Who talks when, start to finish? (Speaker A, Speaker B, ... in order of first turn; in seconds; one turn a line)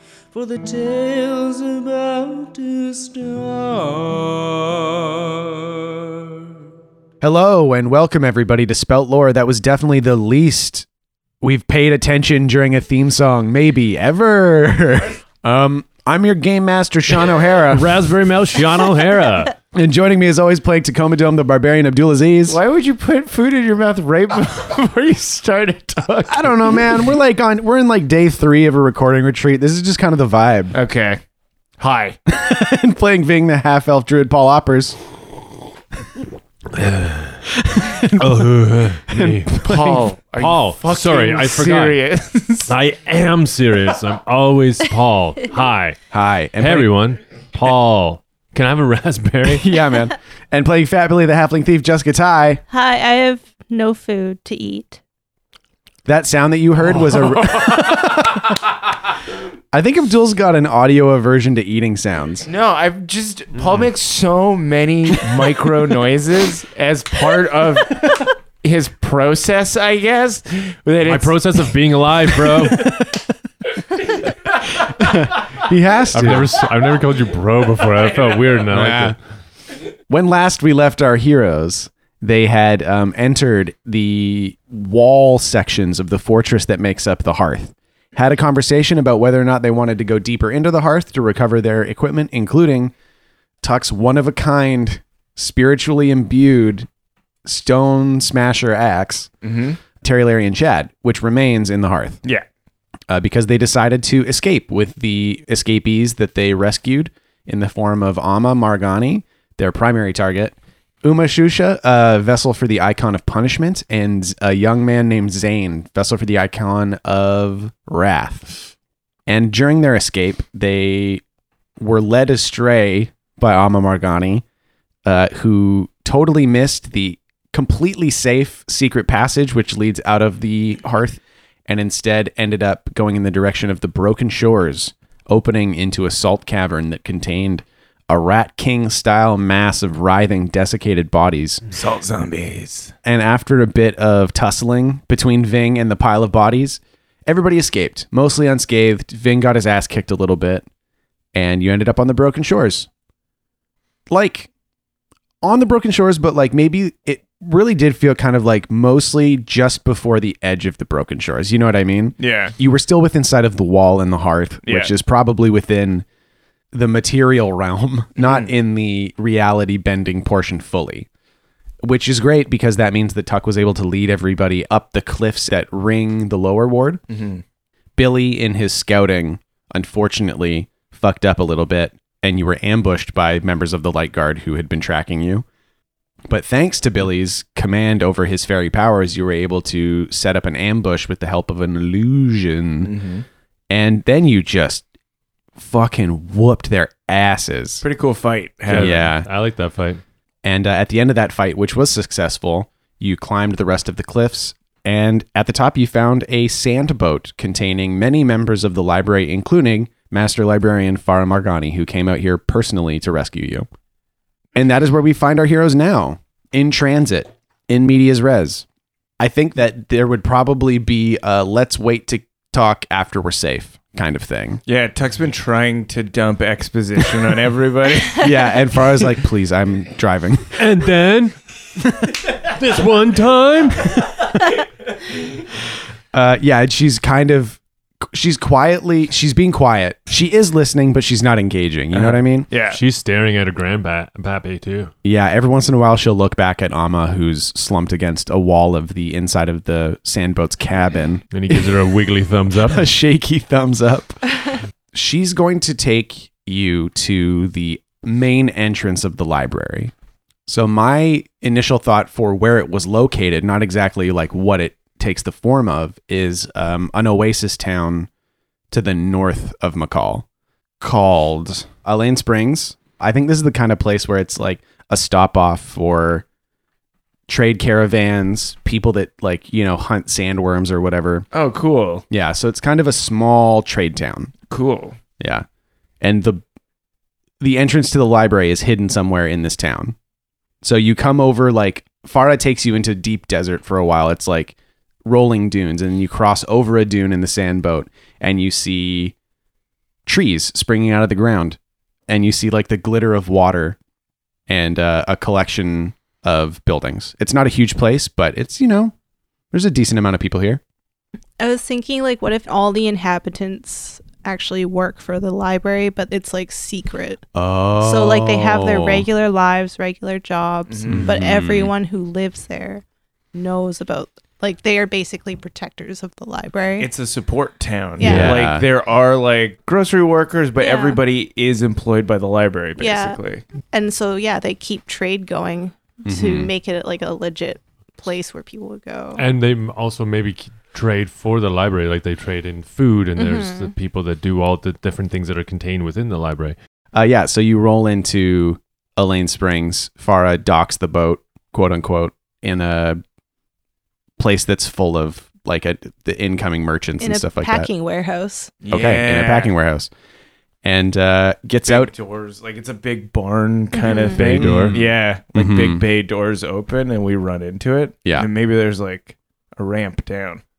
Speaker A: 0.3-6.4
Speaker B: 7.2-10.8
Speaker B: 11.4-18.0
Speaker C: 17.7-19.5
Speaker B: 19.7-22.6
Speaker D: 22.5-26.8
Speaker B: 26.3-30.8
Speaker D: 30.7-31.2
Speaker D: 31.8-32.2
Speaker B: 32.3-35.0
Speaker C: 36.7-37.5
Speaker B: 37.5-38.5
Speaker C: 38.1-39.5
Speaker B: 39.1-40.1
Speaker D: 39.6-42.7
Speaker C: 40.4-42.0
Speaker C: 42.6-46.0
Speaker B: 46.1-46.9
Speaker C: 46.6-49.8
Speaker B: 49.5-52.6
Speaker E: 52.7-55.0
Speaker B: 56.0-58.5
Speaker B: 59.7-62.5
Speaker D: 62.5-71.6
Speaker C: 71.0-73.0
Speaker B: 72.7-73.3
Speaker B: 74.7-76.5
Speaker C: 76.1-79.2
Speaker B: 78.7-79.2
Speaker B: 80.1-92.9
Speaker B: 93.6-96.9
Speaker B: 97.4-99.3
Speaker D: 99.4-99.8
Speaker B: 100.0-102.2
Speaker B: 103.1-118.5
Speaker B: 119.3-121.2
Speaker B: 121.8-124.4
Speaker B: 125.0-141.6
Speaker D: 141.7-142.9
Speaker B: 143.0-150.6
Speaker B: 151.3-152.9
Speaker B: 154.1-154.5
Speaker B: 155.4-166.1
Speaker D: 162.2-162.5
Speaker D: 164.6-164.9
Speaker B: 166.7-171.1
Speaker D: 168.2-168.5
Speaker B: 171.8-177.0
Speaker D: 177.1-177.4
Speaker B: 178.0-185.4
Speaker B: 186.3-192.9
Speaker D: 192.8-193.2
Speaker B: 193.7-194.8
Speaker B: 195.6-197.8
Speaker D: 197.8-199.0
Speaker C: 198.7-200.0
Speaker B: 198.7-199.3
Speaker B: 200.4-213.7
Speaker B: 214.5-218.6
Speaker B: 219.2-224.6
Speaker D: 224.7-228.6
Speaker B: 228.2-230.6
Speaker C: 230.6-231.3
Speaker C: 232.1-234.2
Speaker B: 236.1-242.5
Speaker D: 241.9-242.8
Speaker C: 242.6-244.9
Speaker B: 245.0-251.7
Speaker C: 251.3-252.9
Speaker B: 252.7-259.9
Speaker B: 260.4-268.1
Speaker B: 268.7-270.2
Speaker B: 270.8-276.2
Speaker B: 277.3-281.3
Speaker D: 281.3-282.0
Speaker B: 282.1-284.3
Speaker D: 284.5-285.0
Speaker B: 285.2-285.4
Speaker B: 286.0-286.4
Speaker B: 287.4-289.9
Speaker B: 290.6-299.1
Speaker B: 300.1-303.8
Speaker B: 304.5-308.9
Speaker B: 309.5-310.6
Speaker E: 311.4-317.2
Speaker B: 317.3-319.1
Speaker E: 317.8-322.8
Speaker D: 320.7-321.1
Speaker B: 320.9-321.7
Speaker E: 323.3-326.9
Speaker D: 326.8-333.4
Speaker E: 328.0-328.4
Speaker B: 328.0-328.7
Speaker E: 330.6-331.0
Speaker E: 332.8-333.2
Speaker E: 333.7-339.2
Speaker B: 336.1-336.5
Speaker C: 339.2-346.6
Speaker E: 343.2-343.7
Speaker B: 346.9-353.0
Speaker B: 354.2-357.7
Speaker E: 357.0-358.5
Speaker D: 358.6-359.5
Speaker B: 358.7-359.9
Speaker B: 360.6-361.9
Speaker D: 361.6-370.4
Speaker E: 363.7-364.2
Speaker C: 364.1-364.8
Speaker B: 364.3-365.8